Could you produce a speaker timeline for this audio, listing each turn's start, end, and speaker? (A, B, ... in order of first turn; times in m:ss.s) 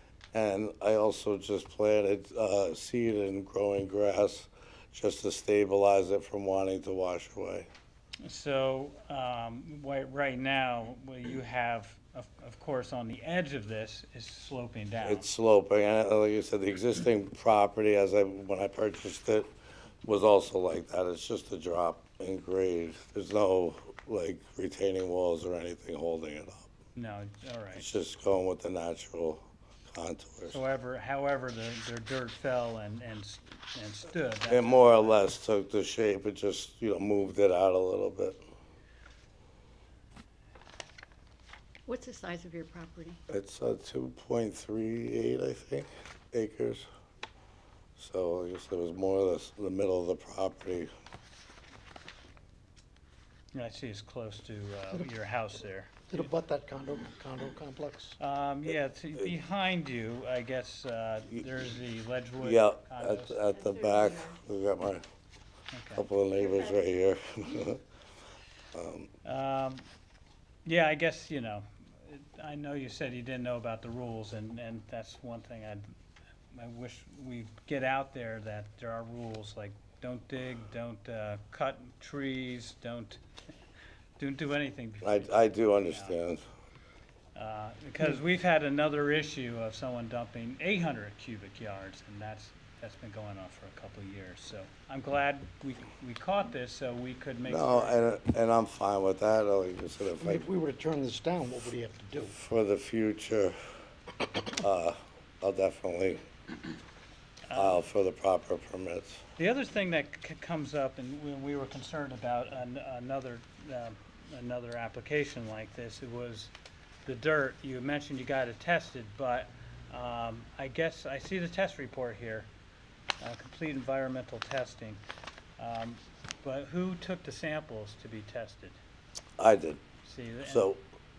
0:00.3-0:07.7 A
0:08.2-0:15.3 B
0:15.0-0:19.5 A
0:20.0-0:26.7 A
0:27.0-0:27.8 B
0:27.7-0:30.6 A
0:30.5-0:35.2 B
0:34.5-0:38.4 A
0:41.8-0:43.2 C
0:43.3-0:46.8 A
0:48.0-0:50.9 A
0:53.5-0:56.3 B
0:56.1-0:58.2 D
0:58.2-1:03.4 B
1:02.4-1:05.0 A
1:03.5-1:04.4 C
1:05.7-1:06.0 B
1:06.0-1:07.8 A
1:08.7-1:09.1 A
1:09.2-1:09.8 B
1:10.6-1:15.9 B
1:16.5-1:23.2 B
1:24.2-1:26.2 B
1:25.0-1:26.4 A
1:27.3-1:38.1 B
1:37.5-1:40.4 A
1:40.2-1:42.3 D
1:42.3-1:43.6 A
1:44.5-1:46.2 A
1:47.5-1:47.8 B
1:47.5-1:49.2 A
1:49.4-1:56.5 B
1:57.0-2:02.5 B
2:03.2-2:05.0 B
2:05.6-2:08.8 B
2:09.4-2:09.8 A
2:10.0-2:10.7 B
2:10.4-2:10.8 A